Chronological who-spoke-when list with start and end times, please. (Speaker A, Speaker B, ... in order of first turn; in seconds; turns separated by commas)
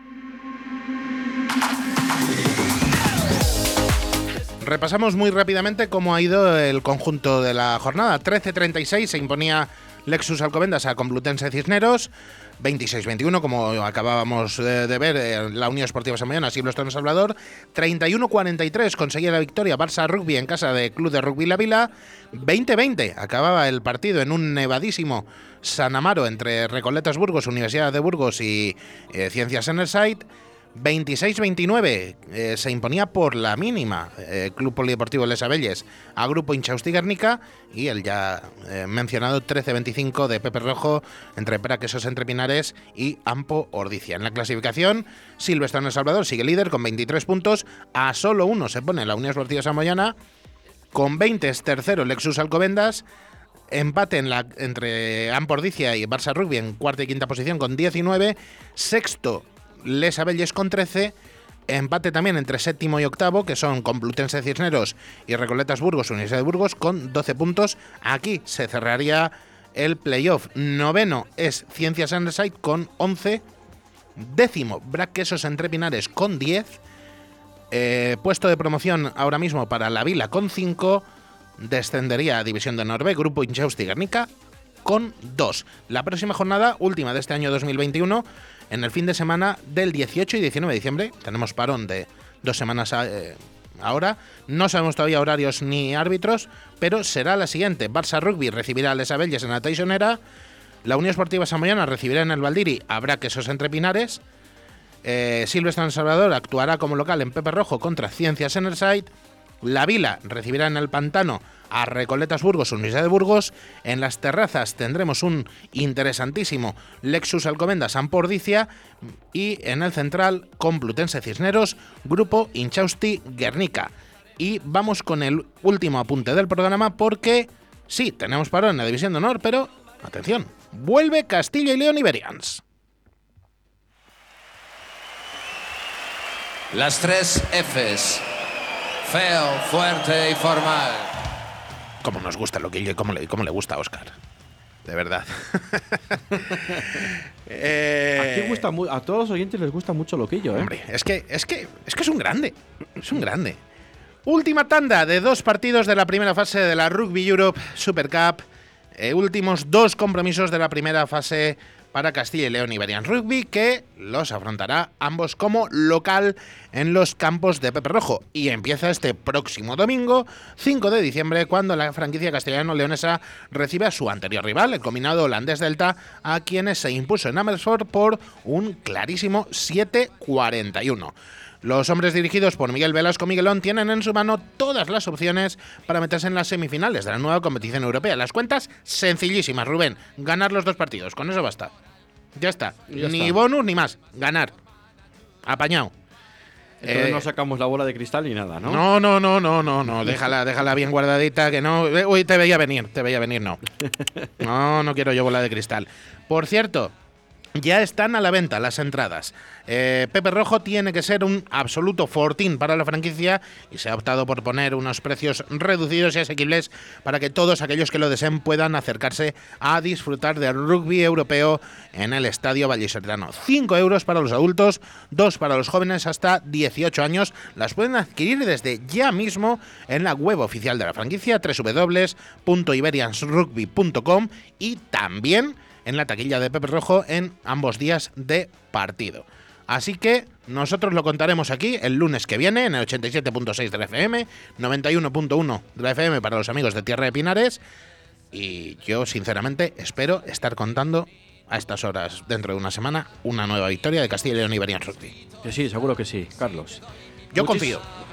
Speaker A: 4.6-50.1, Speaker A: 50.9-53.0, Speaker A: 53.7-61.1, Speaker A: 61.7-73.4, Speaker A: 74.2-76.8, Speaker A: 77.7-81.0, Speaker A: 81.6-84.3, Speaker A: 84.8-100.2, Speaker A: 100.8-104.2, Speaker A: 105.0-109.1, Speaker A: 109.6-118.7, Speaker A: 119.3-132.6, Speaker B: 136.7-138.2, Speaker B: 139.0-141.1, Speaker A: 142.0-144.2, Speaker A: 144.8-148.6, Speaker C: 146.5-147.1, Speaker C: 148.2-150.7, Speaker A: 150.5-153.6, Speaker A: 154.2-158.4, Speaker A: 158.9-191.7, Speaker A: 192.3-194.5, Speaker C: 192.9-193.4, Speaker A: 195.4-195.9, Speaker C: 196.8-198.8, Speaker A: 196.8-197.2, Speaker A: 198.6-203.6, Speaker A: 204.4-206.9, Speaker A: 207.5-247.6, Speaker A: 248.3-255.2, Speaker C: 255.4-256.8, Speaker A: 257.3-257.8, Speaker C: 257.4-257.8